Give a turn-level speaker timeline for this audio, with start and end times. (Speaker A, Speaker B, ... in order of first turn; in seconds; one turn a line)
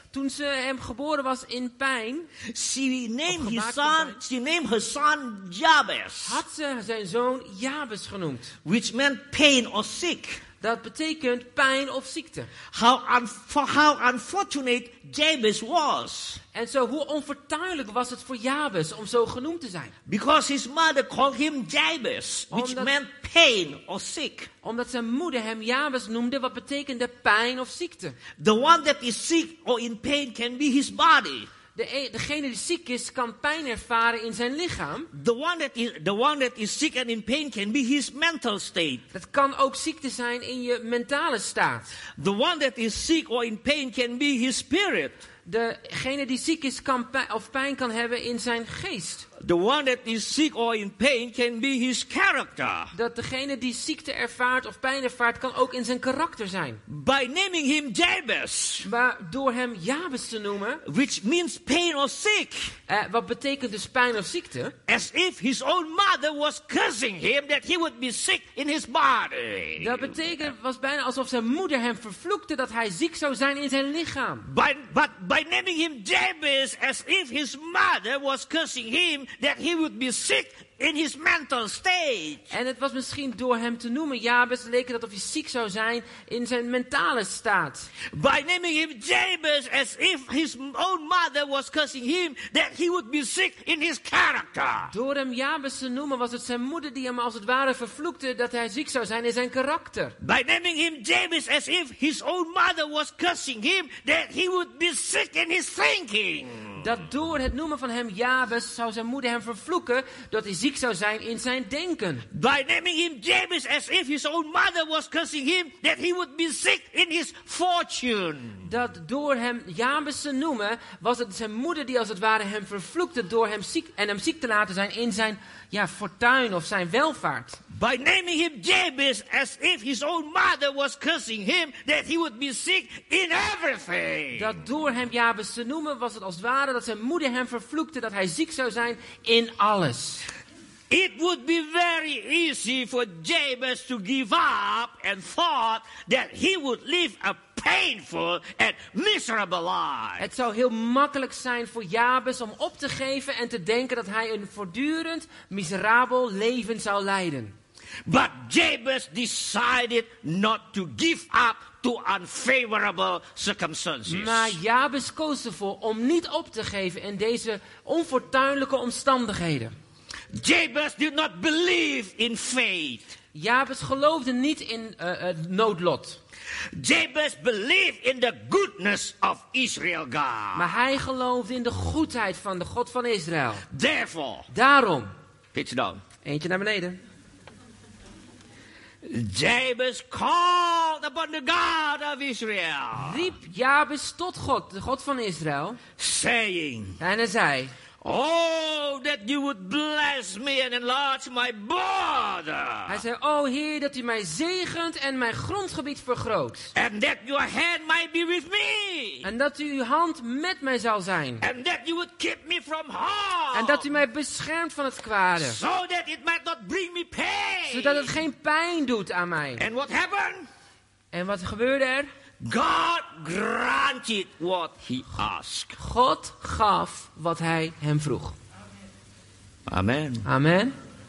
Speaker A: 0.1-2.3
Speaker B: 2.5-6.4
Speaker A: 3.3-4.2
Speaker A: 6.2-8.5
Speaker B: 8.7-10.4
Speaker A: 10.6-12.5
Speaker B: 12.7-16.4
Speaker A: 16.5-19.9
Speaker B: 20.1-24.5
Speaker A: 22.5-22.9
Speaker A: 24.6-28.2
Speaker B: 28.4-31.5
Speaker A: 31.8-35.1
Speaker B: 35.1-39.1
Speaker A: 39.1-42.0
Speaker B: 42.2-45.2
Speaker A: 45.5-49.3
Speaker B: 49.4-52.9
Speaker A: 52.9-56.8
Speaker B: 56.9-58.9
Speaker A: 58.8-60.8
Speaker B: 60.8-62.8
Speaker A: 62.9-64.8
Speaker B: 64.9-70.3
Speaker A: 69.8-74.5
Speaker B: 74.5-82.5
Speaker A: 82.5-87.9
Speaker B: 88.1-94.9
Speaker A: 94.9-100.2
Speaker B: 100.2-106.8
Speaker A: 106.8-112.3
Speaker B: 112.3-118.7
Speaker A: 118.7-127.6
Speaker B: 127.7-134.5
Speaker A: 134.3-140.3
Speaker B: 140.9-150.3
Speaker A: 150.2-157.6
Speaker B: 158.1-164.6
Speaker A: 164.1-169.7
Speaker B: 170.3-173.2
Speaker A: 173.3-176.2
Speaker B: 176.7-180.8
Speaker A: 180.5-183.7
Speaker B: 183.7-184.5
Speaker A: 184.5-185.1
Speaker B: 185.5-186.0
Speaker A: 186.2-187.0
Speaker B: 189.0-193.3
Speaker A: 192.9-195.8
Speaker B: 196.0-197.0
Speaker A: 197.0-197.7
Speaker B: 198.0-203.0
Speaker A: 202.9-206.7
Speaker B: 206.8-209.3
Speaker A: 209.2-211.4
Speaker B: 211.4-213.9
Speaker A: 213.5-215.6
Speaker B: 215.4-218.1
Speaker A: 217.7-219.6
Speaker B: 219.6-220.5
Speaker A: 221.1-222.1
Speaker B: 222.4-225.8
Speaker A: 225.8-228.3
Speaker B: 229.7-230.3
Speaker A: 230.2-230.8